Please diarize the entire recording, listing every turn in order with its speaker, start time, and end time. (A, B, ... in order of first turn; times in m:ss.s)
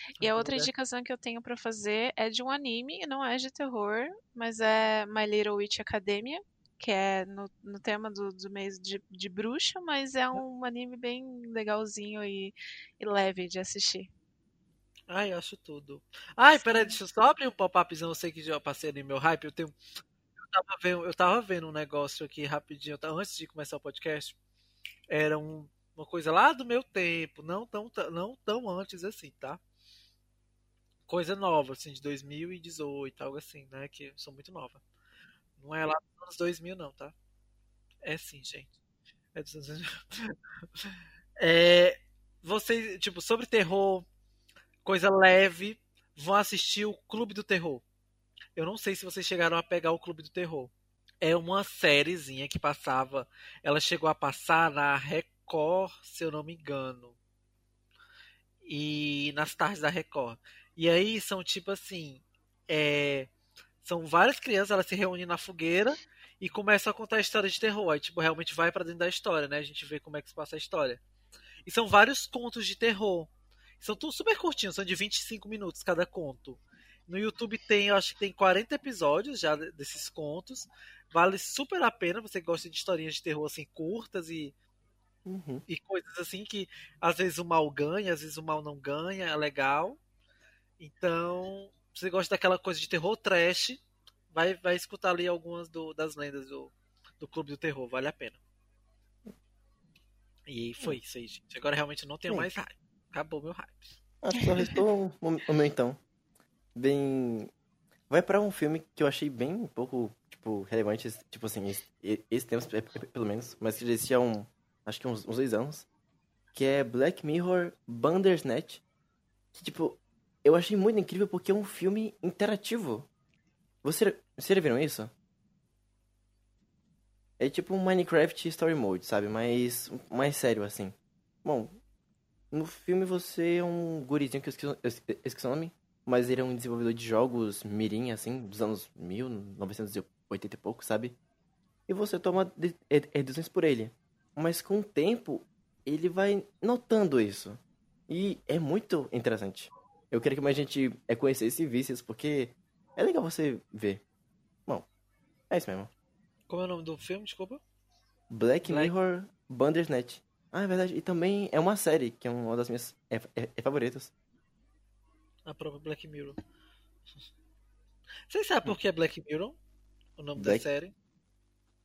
0:00.2-0:00.7 A
0:00.2-0:14.1 B
0:15.1-0:19.8 A
0:16.6-0:16.9 B
0:20.5-0:24.4 A
0:25.1-0:29.6 A
0:31.1-0:34.8 A
0:35.6-0:37.1 A
0:38.0-0:38.7 A
0:39.3-0:40.3 A
0:41.4-0:44.1 A
0:44.8-0:47.8 A
0:48.6-0:57.2 A
0:58.6-1:03.3 A
1:03.8-1:11.0 A
1:11.6-1:24.5 A
1:25.2-1:25.6 C
1:25.7-1:30.0 A
1:30.8-1:38.4 A
1:40.5-1:44.0 A
1:44.2-1:46.0 C
1:46.7-1:47.5 C
1:48.1-1:55.8 C
1:56.5-1:58.8 C
1:59.5-2:03.1 C
2:03.8-2:05.1 C
2:07.4-2:11.8 C
2:12.5-2:21.2 C
2:21.9-2:34.0 C
2:35.5-2:35.9 C
2:36.5-2:37.6 A
2:38.3-2:44.1 C
2:38.6-2:38.9 A
2:45.4-2:46.4 A
2:48.3-2:49.6 A
2:50.2-2:50.9 A
2:50.4-2:50.6 C